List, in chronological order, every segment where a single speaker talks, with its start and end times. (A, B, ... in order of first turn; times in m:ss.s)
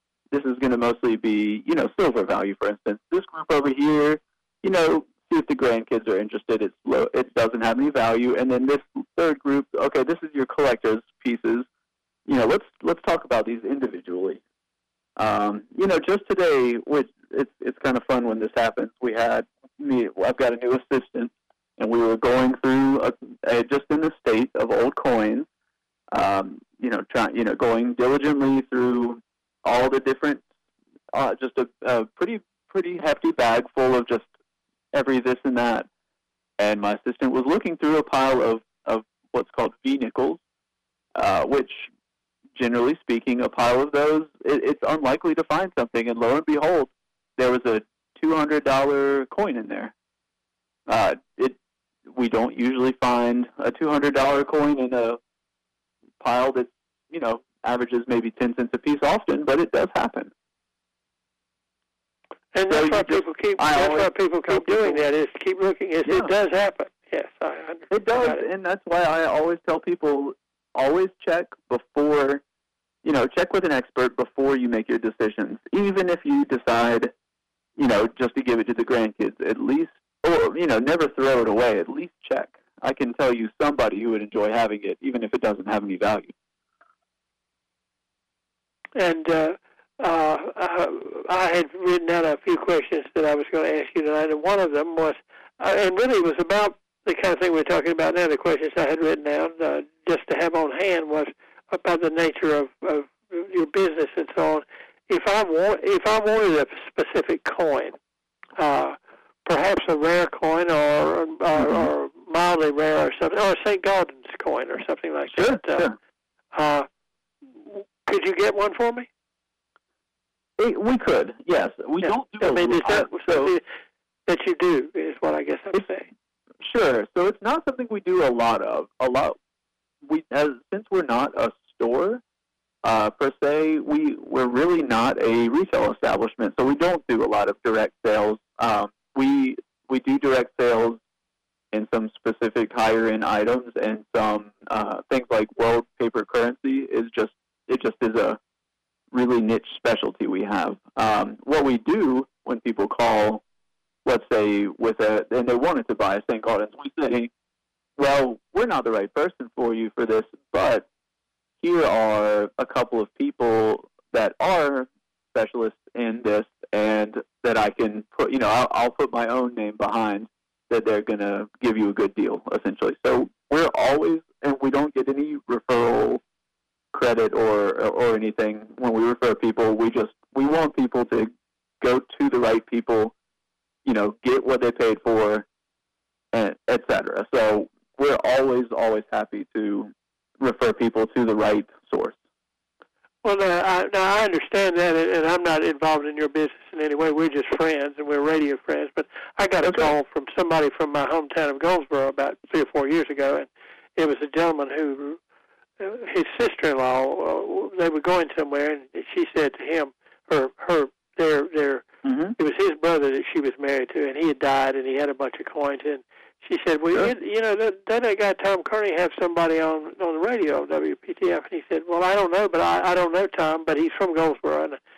0:00.3-0:11.7 A
0:12.3-0:14.4 A
0:15.2-0:25.5 A
0:26.1-0:30.4 A
0:31.1-0:34.3 A
0:34.9-0:35.9 A
0:36.6-0:40.4 A
0:41.2-0:41.9 A
0:42.6-0:49.9 A
0:50.9-0:55.2 A
0:56.2-1:00.3 A
1:02.5-1:08.4 B
1:02.7-1:05.0 A
1:06.0-1:06.3 A
1:07.9-1:12.4 A
1:13.0-1:17.1 A
1:17.8-1:26.3 A
1:29.0-1:48.0 B
1:48.6-1:55.9 B
1:51.6-1:51.9 A
1:55.3-1:56.0 A
1:56.5-1:56.9 B
1:57.5-1:59.1 B
2:00.6-2:03.5 A
2:02.0-2:03.6 B
2:04.3-2:06.1 B
2:06.6-2:09.4 A
2:10.0-2:12.2 A
2:12.8-2:21.0 A
2:21.7-2:28.4 A
2:29.1-2:33.4 A
2:34.0-2:37.3 A
2:38.0-2:40.9 A
2:41.6-2:56.2 A
2:56.9-3:01.3 A
3:01.8-3:03.1 A
3:03.8-3:05.5 A
3:06.3-3:12.2 A
3:13.2-3:25.2 B
3:19.6-3:19.9 A
3:25.8-3:31.9 B
3:32.0-3:32.4 A
3:32.4-3:44.8 B